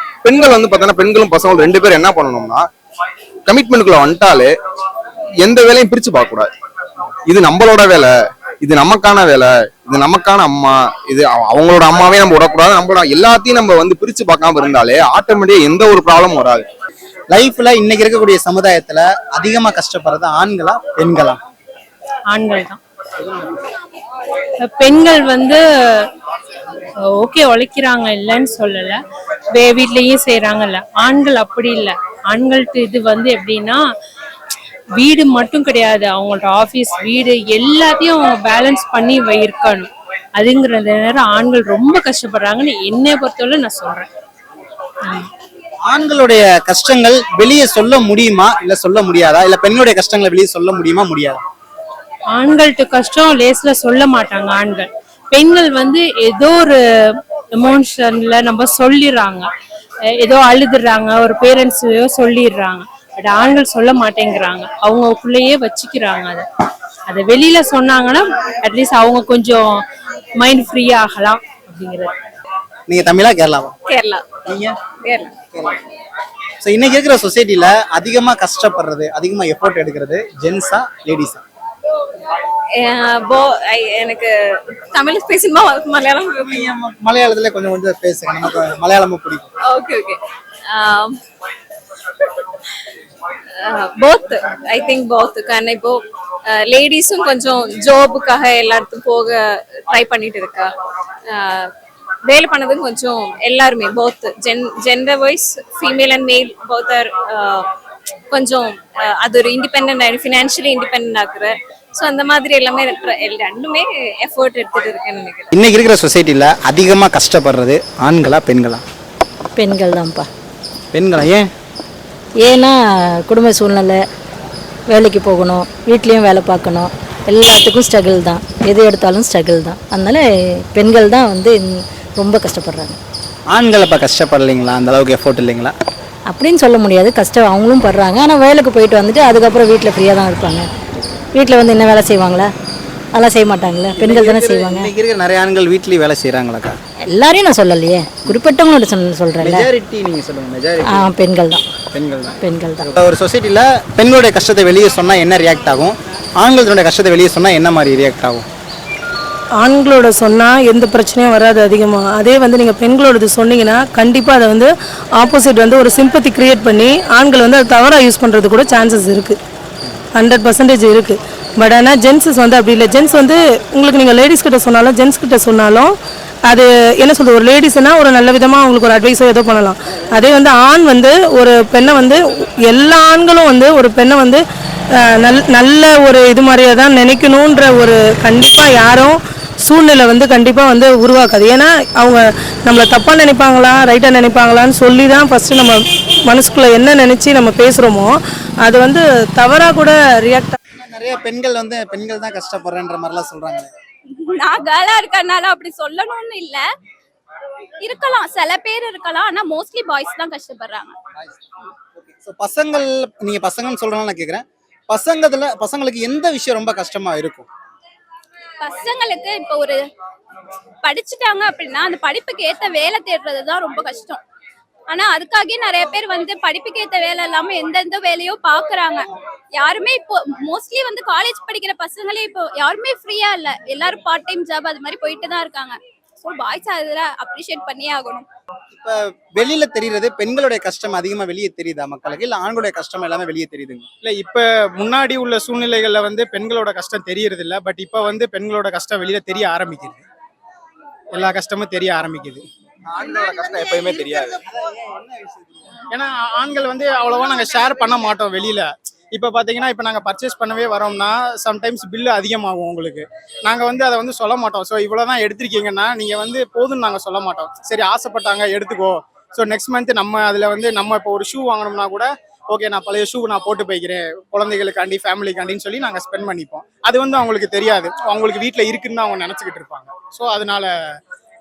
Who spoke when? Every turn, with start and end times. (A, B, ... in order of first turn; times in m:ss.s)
0:00.2-0:02.6 A
0:03.5-0:04.5 A
0:05.4-0:06.5 A
0:07.3-0:08.1 A
0:08.6-0:16.6 A
0:17.3-0:21.4 B
0:22.3-0:22.8 C
0:24.7-0:26.1 C
0:27.2-0:29.0 C
0:29.6-0:33.8 C
0:35.0-0:44.1 C
0:45.9-0:51.4 B
0:52.4-0:56.8 C
0:57.6-0:59.5 C
1:00.2-1:06.5 C
1:07.1-1:09.8 C
1:10.4-1:12.1 C
1:12.9-1:13.7 B
1:13.9-1:14.3 D
1:14.5-1:14.8 B
1:15.0-1:15.4 D
1:15.5-1:15.8 B
1:16.6-1:21.4 B
1:22.8-1:24.3 D
1:24.9-1:26.7 D
1:26.4-1:29.5 B
1:29.7-1:31.2 D
1:33.7-1:40.7 D
1:41.3-1:41.7 D
1:42.3-1:47.6 D
1:48.3-1:55.5 D
1:55.5-1:58.8 B
1:59.6-2:00.3 E
2:00.9-2:01.5 B
2:02.4-2:04.0 E
2:04.9-2:13.0 E
2:13.5-2:15.7 B
2:16.3-2:20.7 E
2:21.4-2:22.5 E
2:23.2-2:24.9 E
2:24.0-2:26.8 B
2:27.1-2:29.6 E
2:29.4-2:31.1 B
2:30.9-2:31.6 E
2:31.9-2:38.5 B
2:32.4-2:32.9 E
2:39.6-2:49.4 F
2:50.2-2:55.9 F
2:56.5-3:04.4 F
3:05.2-3:18.1 F
3:18.6-3:20.6 F
3:20.8-3:23.7 B
3:24.1-3:26.6 G
3:27.8-3:31.0 G
3:32.0-3:37.5 B
3:38.6-3:39.8 G
3:40.8-3:44.2 G
3:44.9-3:58.3 G
3:58.8-4:03.9 B
4:04.0-4:10.0 H
4:11.1-4:12.4 H
4:13.0-4:14.4 A
4:13.0-4:15.7 B
4:15.9-4:40.7 H